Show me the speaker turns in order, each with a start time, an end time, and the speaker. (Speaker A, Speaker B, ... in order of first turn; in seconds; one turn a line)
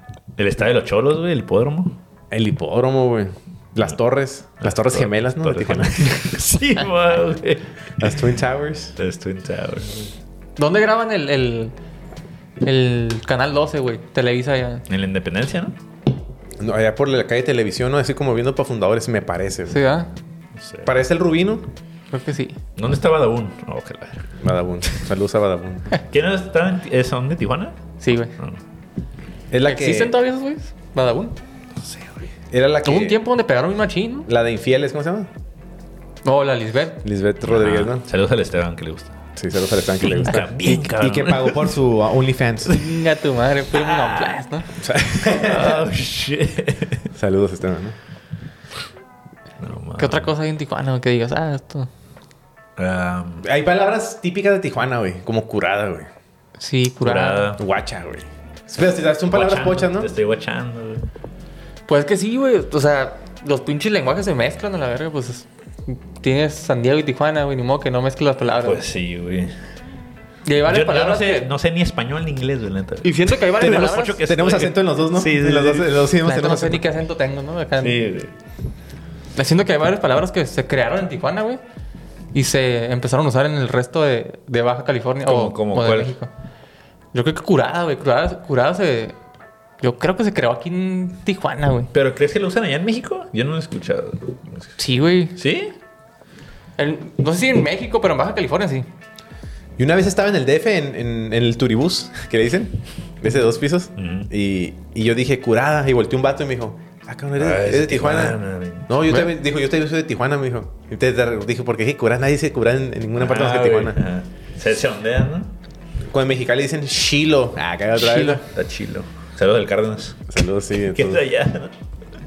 Speaker A: 0.4-2.0
Speaker B: 2.3-6.2
Speaker A: 4.6-8.2
Speaker B: 8.0-8.9
Speaker A: 9.0-10.1
Speaker C: 10.6-11.7
Speaker C: 12.6-14.8
Speaker A: 14.9-15.8
Speaker B: 16.6-19.8
Speaker C: 19.7-20.1
Speaker A: 20.6-20.9
Speaker B: 20.8-21.7
Speaker C: 22.1-22.6
Speaker A: 22.8-24.3
Speaker B: 24.4-25.9
Speaker A: 26.1-28.6
Speaker C: 28.0-28.3
Speaker B: 29.5-30.1
Speaker C: 29.6-31.4
Speaker A: 31.8-32.3
Speaker B: 32.5-33.2
Speaker C: 32.8-34.3
Speaker B: 34.3-35.3
Speaker C: 36.2-37.0
Speaker B: 37.0-38.0
Speaker A: 37.4-39.1
Speaker B: 39.4-42.8
Speaker A: 40.0-41.7
Speaker C: 42.6-44.7
Speaker A: 43.7-44.4
Speaker B: 44.8-45.9
Speaker A: 45.3-47.0
Speaker B: 47.1-48.0
Speaker A: 49.6-50.3
Speaker C: 50.0-51.9
Speaker A: 52.8-53.5
Speaker B: 53.4-56.1
Speaker C: 56.6-57.5
Speaker A: 57.0-57.6
Speaker B: 57.6-60.1
Speaker A: 59.3-61.1
Speaker C: 61.9-68.8
Speaker A: 68.6-69.5
Speaker C: 70.4-71.5
Speaker A: 70.6-76.1
Speaker C: 73.0-74.2
Speaker B: 73.6-76.8
Speaker C: 76.2-78.0
Speaker A: 77.8-78.3
Speaker C: 79.3-81.6
Speaker C: 82.3-86.3
Speaker A: 85.2-86.1
Speaker C: 87.1-89.2
Speaker C: 89.8-91.9
Speaker A: 91.9-94.7
Speaker C: 94.8-95.3
Speaker A: 95.4-95.7
Speaker C: 96.8-98.9
Speaker B: 99.8-114.0
Speaker A: 104.0-104.3
Speaker A: 107.4-108.9
Speaker A: 113.2-115.5
Speaker B: 116.1-118.4
Speaker C: 118.0-118.4
Speaker A: 118.4-120.2
Speaker B: 120.3-121.2
Speaker A: 120.9-121.7